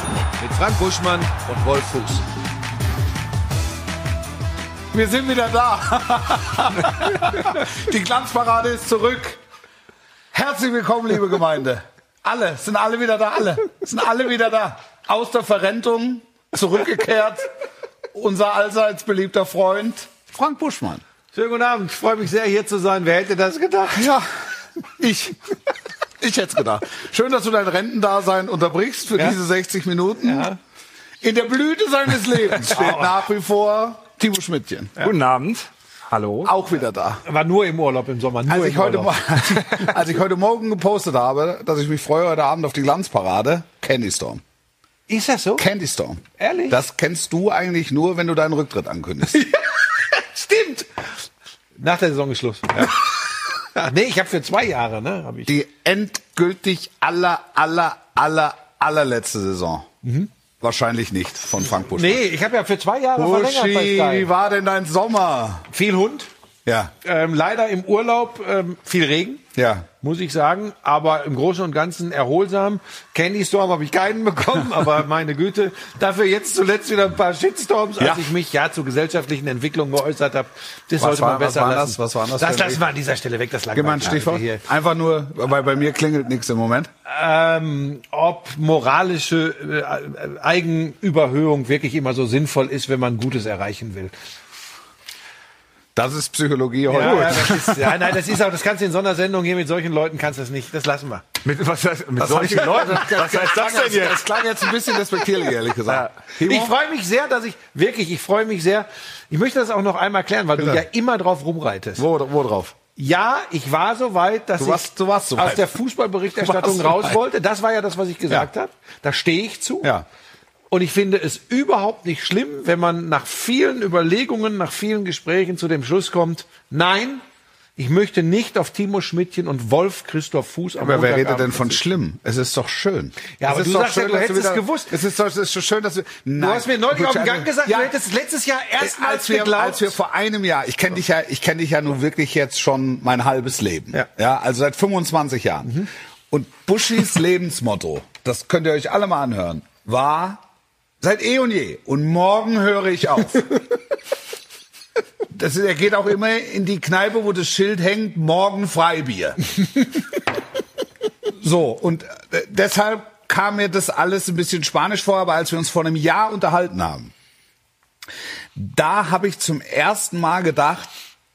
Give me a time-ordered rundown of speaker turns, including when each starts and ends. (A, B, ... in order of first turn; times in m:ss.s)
0:00.4-0:02.2 A
0:04.9-0:09.4 B
0:10.3-0:17.5 B
0:18.1-0:21.0 B
0:21.3-0:24.0 A
0:23.9-0:24.3 B
0:25.0-0:25.4 B
0:26.2-0:30.5 B
0:30.2-0:30.6 A
0:31.2-0:34.9 B
0:32.7-0:33.1 A
0:35.0-0:36.5 C
0:36.4-0:37.2 B
0:37.2-0:39.2 A
0:38.5-0:44.4 B
0:45.1-0:45.6 A
0:45.6-0:49.4 B
0:46.4-0:46.8 A
0:49.3-0:50.9 A
0:51.8-0:55.5 A
0:55.4-0:59.9 B
1:00.0-1:00.3 A
1:00.6-1:02.2 B
1:01.8-1:04.3 A
1:03.1-1:05.7 B
1:05.7-1:06.3 A
1:06.6-1:06.9 B
1:07.0-1:09.4 A
1:09.5-1:09.9 B
1:10.0-1:24.6 A
1:18.0-1:18.3 B
1:21.0-1:22.8 B
1:23.7-1:26.9 B
1:27.0-1:34.1 A
1:35.9-1:38.1 B
1:36.9-1:41.2 A
1:37.0-1:37.3 C
1:41.4-1:44.2 C
1:42.2-1:46.7 B
1:46.4-1:52.0 A
1:50.6-1:50.8 B
1:52.0-1:52.8 B
1:53.0-1:59.9 A
1:54.6-1:55.7 B
1:56.4-1:57.2 B
2:00.7-2:07.2 A
2:07.8-2:11.8 A
2:10.8-2:17.9 B
2:13.4-2:14.9 A
2:16.4-2:19.9 A
2:18.8-2:30.4 B
2:31.0-2:33.6 B
2:35.3-2:39.4 B
2:41.4-2:47.1 B
2:48.5-2:50.9 B